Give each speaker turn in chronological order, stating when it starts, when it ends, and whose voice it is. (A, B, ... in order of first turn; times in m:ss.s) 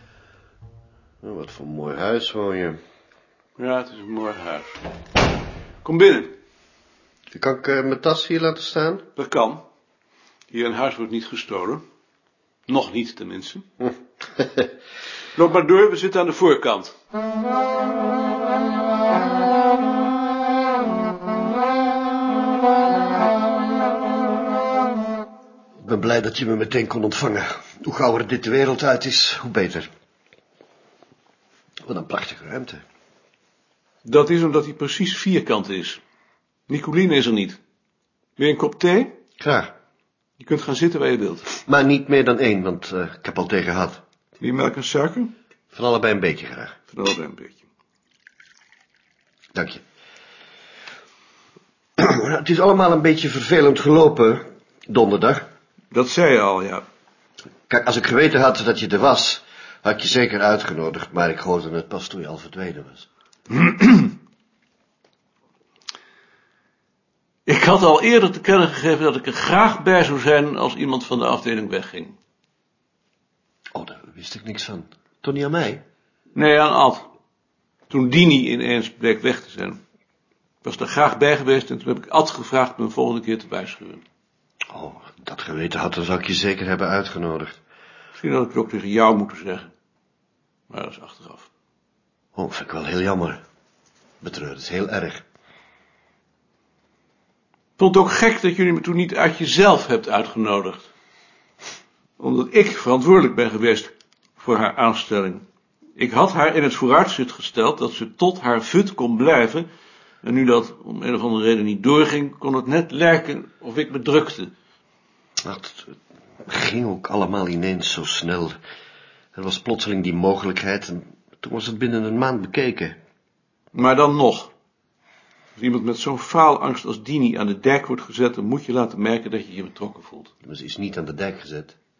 0:01.2-0:02.8 A
0:03.6-0:04.8 B
0:05.8-0:06.4 B
0:07.3-0:09.0 A
0:09.2-0:09.6 B
0:10.5-0:11.8 B
0:12.7-0:13.7 B
0:15.3-0:16.9 B
0:25.8-0:29.9 A
0:31.9-0:32.8 A
0:34.0-0:36.0 B
0:36.7-0:37.6 B
0:38.4-0:39.2 B
0:39.4-0:39.7 A
0:40.4-0:41.5 B
0:41.7-0:44.0 A
0:44.4-0:45.3 B
0:45.7-0:46.8 A
0:46.9-0:47.6 B
0:49.6-0:49.8 A
0:52.0-0:55.4 A
0:55.9-0:56.8 B
0:57.7-1:03.1 A
1:03.5-1:04.1 B
1:07.4-1:12.2 B
1:13.8-1:15.8 A
1:16.3-1:17.0 B
1:17.9-1:19.8 B
1:20.6-1:24.0 B
1:24.7-1:27.6 A
1:28.1-1:29.7 B
1:30.7-1:31.5 B
1:32.3-1:33.4 A
1:34.2-1:35.2 A
1:37.8-1:40.9 B
1:42.2-1:45.4 B
1:46.0-1:49.7 B
1:50.2-1:54.5 B
1:55.4-1:55.9 A
1:56.4-1:58.5 A
1:59.3-2:03.0 A
2:03.7-2:04.5 B
2:05.6-2:10.3 B
2:10.4-2:11.8 A